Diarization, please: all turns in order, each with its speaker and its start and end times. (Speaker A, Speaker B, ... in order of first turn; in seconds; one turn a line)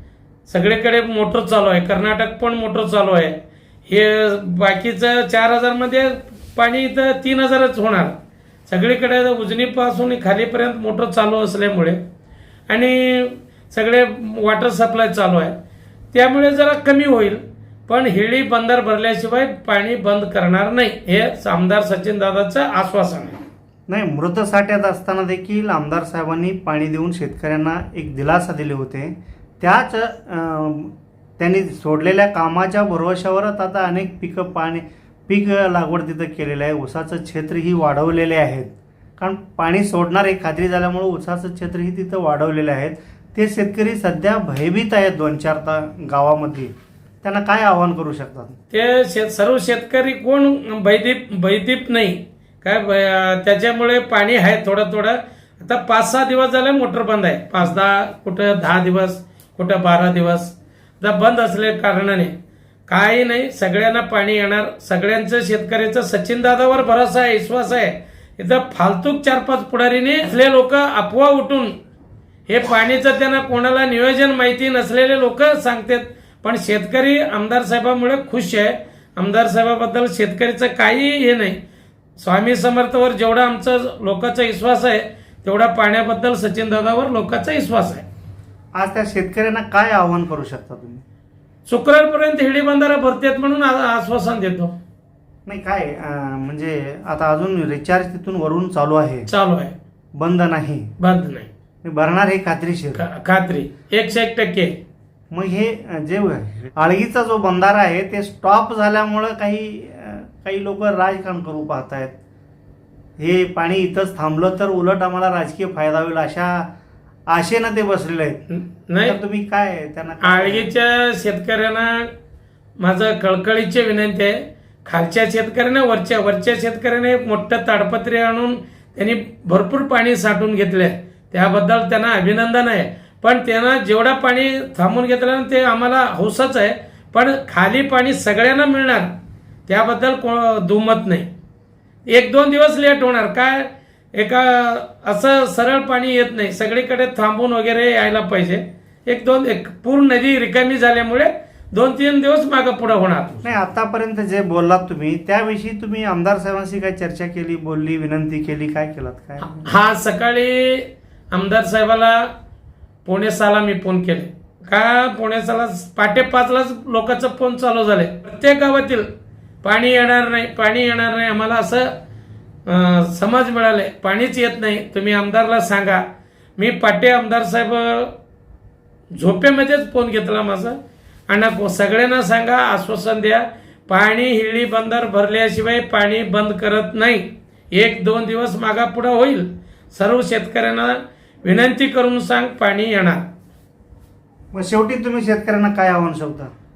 Speaker A: 0.5-8.2
Speaker A: 8.7-12.0
Speaker A: 12.7-15.6
Speaker A: 16.1-23.4
Speaker B: 23.9-48.6
Speaker A: 48.7-62.3
Speaker A: 62.9-71.8
Speaker A: 72.5-81.6
Speaker A: 82.2-88.0
Speaker B: 88.7-91.0
Speaker A: 91.7-94.7
Speaker B: 95.5-99.3
Speaker A: 99.3-99.8
Speaker B: 100.1-100.9
Speaker A: 101.0-101.5
Speaker B: 101.8-103.0
Speaker A: 102.9-104.8
Speaker B: 105.3-112.1
Speaker B: 113.2-116.7
Speaker B: 117.3-118.4
Speaker A: 118.5-119.2
Speaker B: 119.0-120.7
Speaker A: 120.2-122.1
Speaker A: 122.8-139.1
Speaker A: 139.7-141.3
Speaker A: 142.1-153.5
Speaker B: 153.4-159.7
Speaker A: 159.4-162.3
Speaker A: 163.0-169.1
Speaker A: 169.6-171.9
Speaker A: 172.7-176.0
Speaker A: 176.6-178.1
Speaker A: 179.1-180.8
Speaker A: 181.3-193.2
Speaker B: 194.5-196.5